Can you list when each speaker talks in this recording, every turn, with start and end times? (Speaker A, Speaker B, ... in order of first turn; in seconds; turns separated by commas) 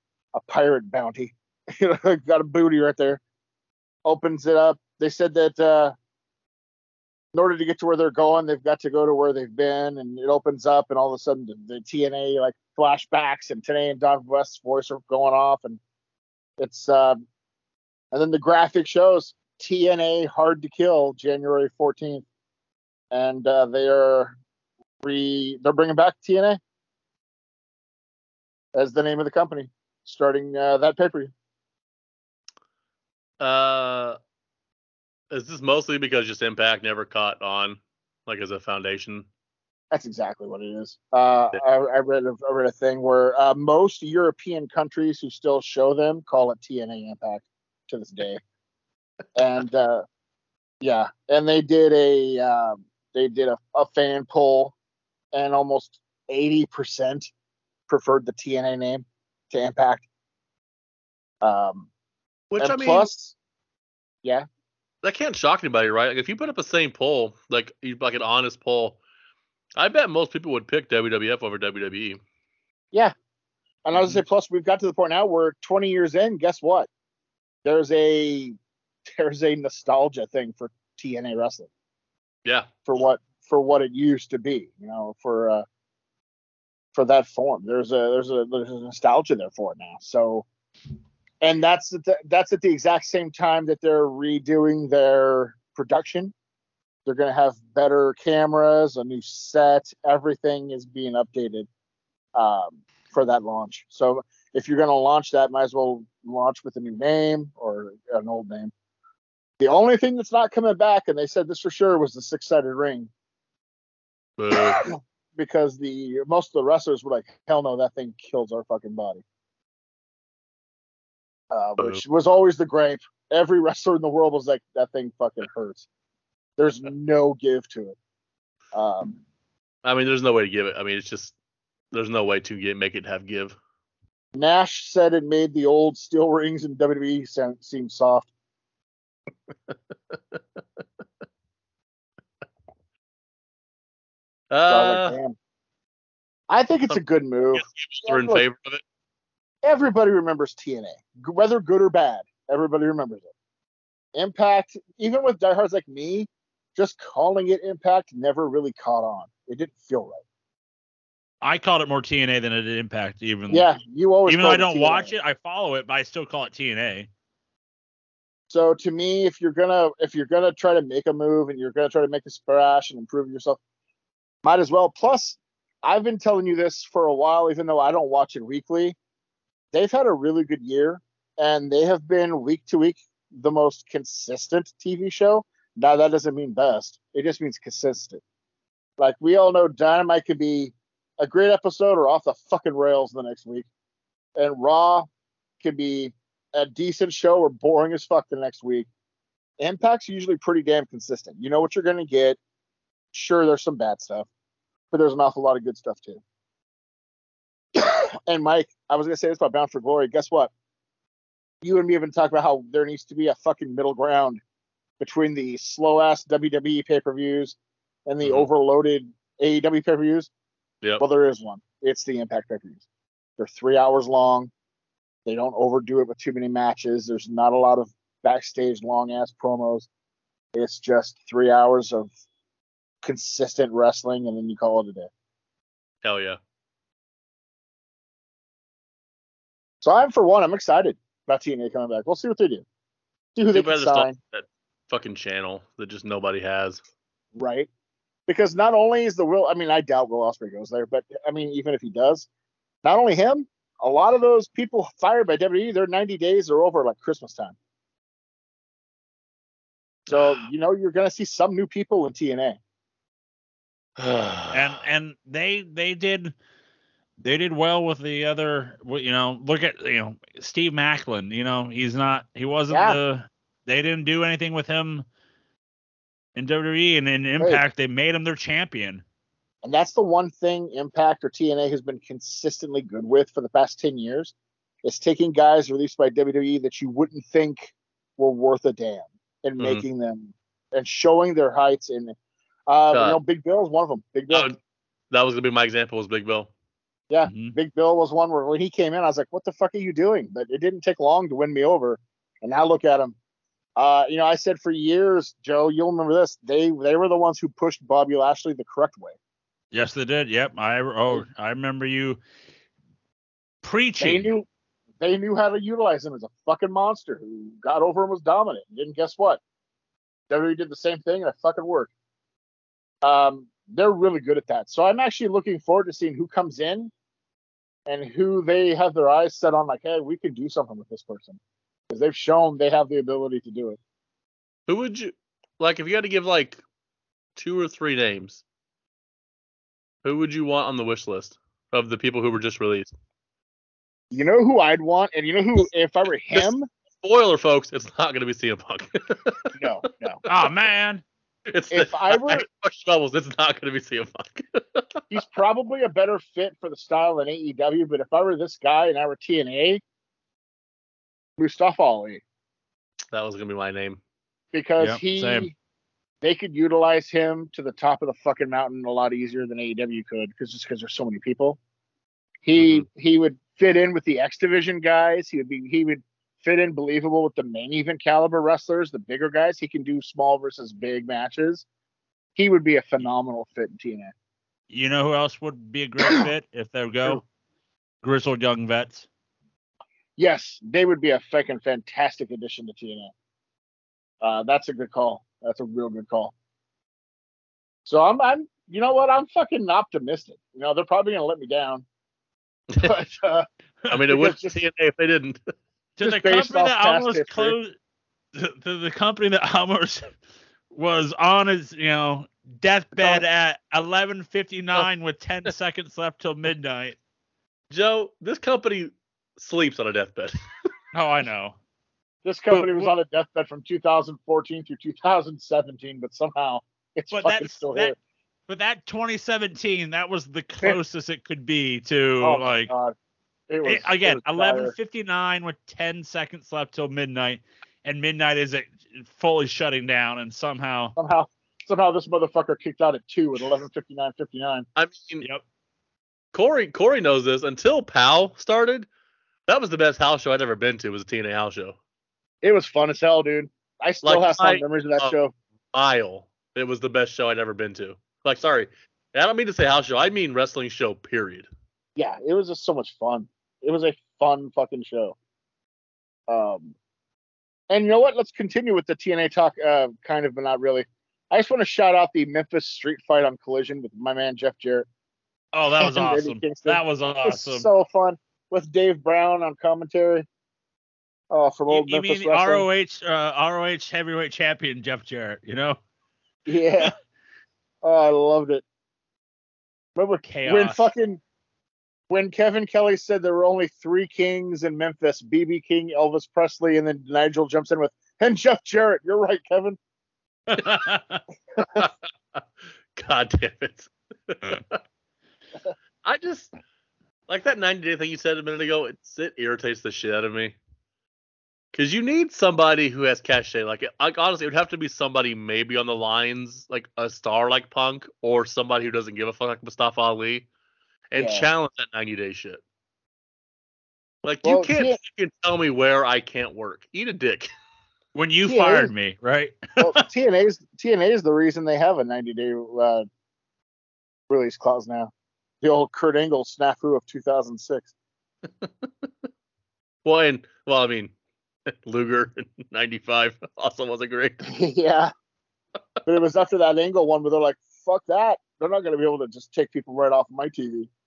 Speaker A: 0.3-3.2, Speaker A: 4.0-6.0, Speaker A: 7.3-15.8, Speaker A: 16.6-17.2, Speaker A: 18.1-22.3, Speaker A: 23.1-24.4, Speaker A: 25.0-26.6, Speaker A: 28.8-31.3, Speaker B: 33.4-34.2, Speaker B: 35.3-39.3, Speaker A: 39.9-48.4, Speaker A: 49.4-50.0, Speaker A: 50.8-54.7, Speaker A: 55.3-57.3, Speaker A: 57.9-60.1, Speaker A: 61.4-61.9, Speaker B: 62.5-63.1, Speaker A: 62.6-63.4, Speaker B: 65.0-69.0, Speaker B: 69.8-72.2, Speaker A: 73.8-76.9, Speaker A: 77.7-81.7, Speaker A: 82.9-85.7, Speaker A: 87.0-90.5, Speaker A: 91.4-96.3, Speaker A: 97.1-101.7, Speaker A: 102.4-108.7, Speaker A: 109.6-113.1, Speaker B: 114.4-114.8, Speaker A: 114.5-119.2, Speaker A: 121.5-125.9, Speaker A: 126.6-128.0, Speaker A: 128.7-129.2, Speaker B: 129.8-131.3, Speaker B: 131.9-133.6, Speaker A: 134.3-138.3, Speaker B: 144.5-145.2, Speaker A: 144.7-145.4, Speaker A: 146.5-148.4, Speaker B: 147.6-148.8, Speaker A: 149.6-153.3, Speaker A: 154.2-160.2, Speaker C: 161.4-163.7, Speaker A: 163.5-165.1, Speaker C: 164.3-167.1, Speaker A: 168.5-173.6, Speaker A: 174.4-179.0, Speaker A: 179.7-188.2, Speaker A: 189.0-193.7, Speaker A: 194.4-195.1, Speaker A: 195.6-198.9, Speaker A: 199.6-202.4, Speaker A: 203.1-204.3, Speaker A: 204.9-206.2, Speaker A: 207.8-210.5, Speaker A: 211.6-214.4, Speaker A: 215.0-217.6, Speaker A: 218.1-220.3, Speaker A: 221.0-222.8, Speaker A: 223.4-224.5, Speaker A: 225.3-229.9, Speaker A: 230.6-232.1, Speaker A: 233.0-235.1, Speaker B: 236.0-236.4, Speaker A: 239.8-242.7, Speaker A: 243.4-244.2, Speaker B: 243.5-246.8, Speaker A: 247.4-247.7, Speaker A: 248.3-252.3, Speaker A: 252.8-257.6, Speaker A: 260.1-262.6, Speaker B: 260.1-260.4, Speaker B: 264.0-264.8, Speaker C: 264.5-266.3, Speaker C: 267.2-275.1, Speaker A: 272.7-273.0, Speaker C: 276.4-279.0, Speaker A: 279.6-292.1, Speaker A: 292.7-294.6, Speaker B: 292.9-293.2, Speaker B: 294.3-294.6, Speaker B: 295.1-296.5, Speaker A: 297.1-303.2, Speaker C: 297.2-297.6, Speaker A: 303.8-309.2, Speaker C: 309.7-312.2, Speaker C: 313.6-314.3, Speaker A: 314.0-314.5, Speaker A: 315.0-319.4, Speaker A: 320.3-321.9, Speaker A: 323.0-326.9, Speaker A: 327.9-331.4, Speaker A: 331.9-333.8, Speaker B: 334.7-336.6, Speaker B: 337.4-338.4, Speaker B: 340.0-342.9, Speaker A: 344.1-346.7, Speaker B: 347.0-349.6, Speaker A: 349.6-350.2, Speaker C: 350.3-351.0, Speaker B: 351.5-355.1, Speaker A: 351.7-352.4, Speaker A: 355.1-359.8, Speaker A: 361.4-362.2, Speaker B: 363.1-364.0, Speaker A: 364.5-365.6, Speaker C: 364.8-365.5, Speaker A: 366.2-371.6, Speaker A: 372.4-381.6, Speaker B: 372.6-372.9, Speaker A: 382.4-384.1, Speaker C: 384.7-387.2, Speaker C: 388.0-389.1, Speaker A: 390.2-393.1, Speaker A: 394.2-396.3, Speaker A: 397.9-401.9, Speaker A: 402.8-403.5, Speaker B: 403.9-405.4, Speaker A: 404.1-404.6, Speaker C: 406.0-407.8, Speaker A: 406.0-407.6, Speaker C: 408.3-410.1, Speaker C: 410.7-417.0, Speaker B: 417.7-420.3, Speaker C: 420.9-421.6, Speaker A: 422.2-427.9, Speaker C: 422.5-422.9, Speaker C: 427.1-427.9, Speaker C: 428.5-432.7, Speaker A: 432.2-432.9, Speaker A: 433.5-434.7, Speaker C: 433.6-440.9, Speaker A: 441.0-444.7, Speaker B: 444.8-445.2, Speaker B: 446.3-448.9, Speaker B: 449.5-451.8, Speaker A: 452.4-455.3, Speaker B: 454.0-455.1, Speaker B: 455.7-461.5, Speaker A: 462.0-465.2, Speaker A: 466.3-466.8, Speaker A: 467.7-474.9, Speaker C: 475.5-477.7, Speaker A: 475.8-480.3, Speaker A: 481.3-482.7, Speaker C: 481.7-485.8, Speaker A: 486.5-486.9, Speaker A: 487.8-488.6, Speaker A: 490.0-491.2, Speaker C: 490.2-490.9, Speaker A: 492.1-499.8, Speaker C: 500.5-501.2, Speaker B: 501.7-502.4, Speaker B: 503.0-504.8, Speaker B: 506.0-506.6, Speaker B: 507.3-510.6, Speaker B: 511.7-520.5, Speaker B: 521.1-522.6, Speaker A: 521.2-521.5, Speaker B: 524.2-527.5, Speaker A: 524.4-525.0, Speaker C: 528.1-530.0, Speaker A: 528.5-528.9, Speaker A: 529.8-533.1, Speaker A: 534.3-535.1, Speaker A: 535.6-537.9, Speaker B: 538.6-539.1, Speaker B: 540.0-541.1, Speaker B: 541.7-544.5, Speaker A: 544.5-545.1, Speaker A: 546.1-550.9